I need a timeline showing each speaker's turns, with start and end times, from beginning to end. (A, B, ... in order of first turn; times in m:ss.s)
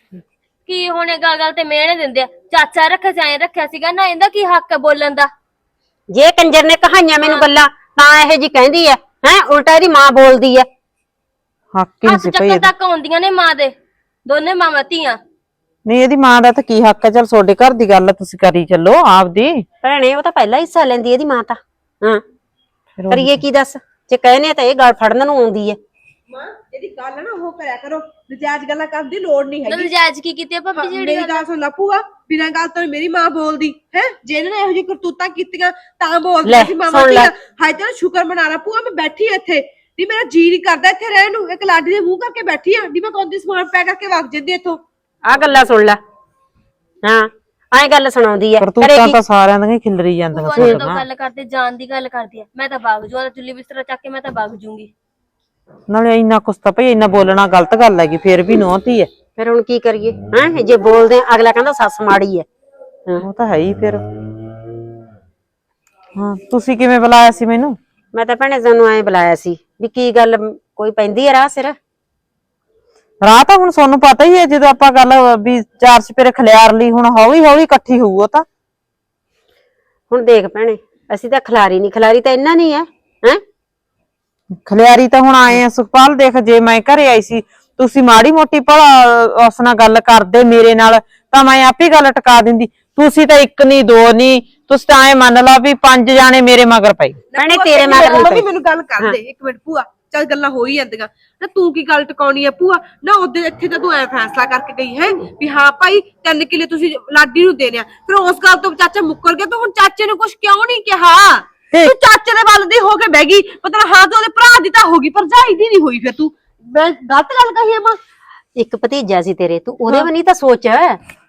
0:00.7-0:05.3 A
0:06.1-0:10.7 B
0:11.8-0:12.7 C
0:12.0-0:13.7 A
0:14.2-0:15.2 A
0:15.8-0:19.6 C
0:19.8-0:22.2 B
0:23.0-0:23.4 C
0:23.1-0:25.8 B
0:26.3-0:29.9 D
0:29.7-0:31.4 A
0:30.7-0:44.8 D
0:36.4-0:37.3 B
0:45.2-0:46.0 B
0:47.0-0:49.2 B
0:48.6-0:51.0 C
0:50.3-0:54.9 A
0:50.6-0:50.8 B
0:55.9-0:59.1 C
0:59.4-1:02.4 B
1:03.2-1:04.0 C
1:06.2-1:07.8 C
1:08.1-1:11.8 B
1:13.2-1:18.4 C
1:20.1-1:23.4 B
1:24.6-1:37.2 C
1:37.3-1:58.0 D
1:37.4-1:38.4 B
1:58.6-2:01.0 B